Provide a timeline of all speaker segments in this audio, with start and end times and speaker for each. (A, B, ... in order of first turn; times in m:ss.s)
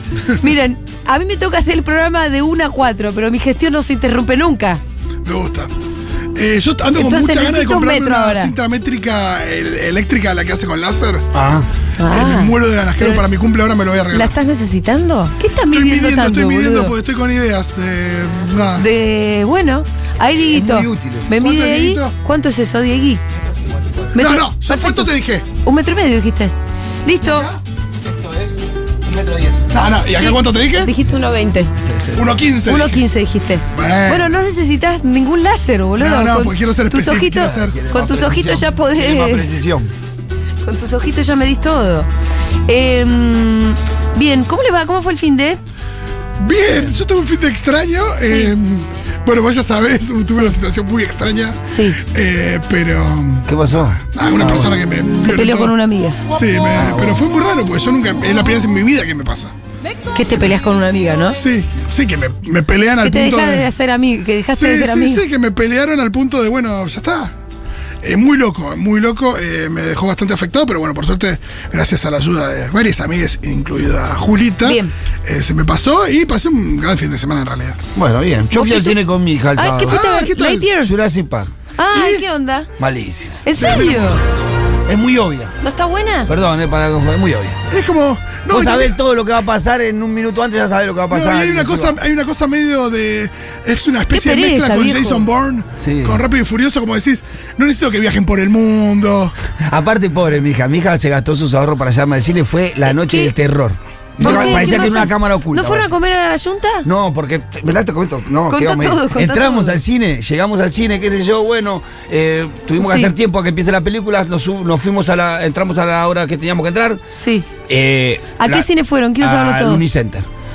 0:00.3-0:04.8 A
0:05.2-0:05.7 B
0:06.4-0:11.2 B
0:07.0-0:08.5 A
0:11.3-0:11.7 C
0:12.0-0:13.2 A
0:12.1-0:14.3 B
0:14.1-0:16.9 A
0:15.7-0:18.8 B
0:18.8-0:23.2 A
0:20.5-0:21.3 C
0:21.4-0:22.2 B
0:23.7-0:24.0 C
0:24.1-0:26.5 A
0:24.2-0:25.5 B
0:27.0-0:27.5 A
0:27.3-0:27.6 B
0:28.0-0:29.7 C
0:29.7-0:30.9 B
0:30.2-0:31.7 A
0:32.2-0:33.0 B
0:32.7-0:39.6 A
0:33.7-0:34.4 B
0:36.0-0:37.8 B
0:37.5-0:39.9 C
0:40.6-0:42.1 A
0:42.7-0:45.6 A
0:46.4-0:53.5 B
0:48.2-0:48.5 A
0:50.3-0:50.6 A
0:51.7-0:52.0 A
0:53.5-0:54.8 C
0:54.1-0:55.7 B
0:55.2-0:56.2 A
0:56.3-0:59.5 B
0:56.8-0:57.2 C
1:00.2-1:01.4 A
1:01.4-1:03.7 B
1:03.0-1:05.2 A
1:04.5-1:07.3 B
1:08.0-1:17.8 B
1:14.6-1:14.9 A
1:17.9-1:20.1 C
1:18.5-1:19.0 A
1:19.6-1:20.9 A
1:19.9-1:20.7 B
1:20.8-1:21.5 C
1:21.8-1:22.7 A
1:21.9-1:22.2 B
1:22.8-1:23.5 C
1:23.4-1:24.2 A
1:23.6-1:24.3 B
1:24.8-1:25.6 C
1:25.6-1:26.3 A
1:26.3-1:27.6 C
1:27.7-1:29.0 B
1:28.5-1:32.0 C
1:31.1-1:39.4 B
1:34.1-1:35.3 A
1:35.8-1:36.2 C
1:39.6-1:45.9 C
1:42.9-1:43.3 A
1:44.2-1:44.8 B
1:44.2-1:46.9 A
1:46.8-1:57.0 C
1:48.5-1:49.8 A
1:52.8-1:53.1 A
1:57.1-1:57.5 A
1:57.7-1:58.7 C
1:58.4-1:59.8 A
1:59.2-2:00.3 C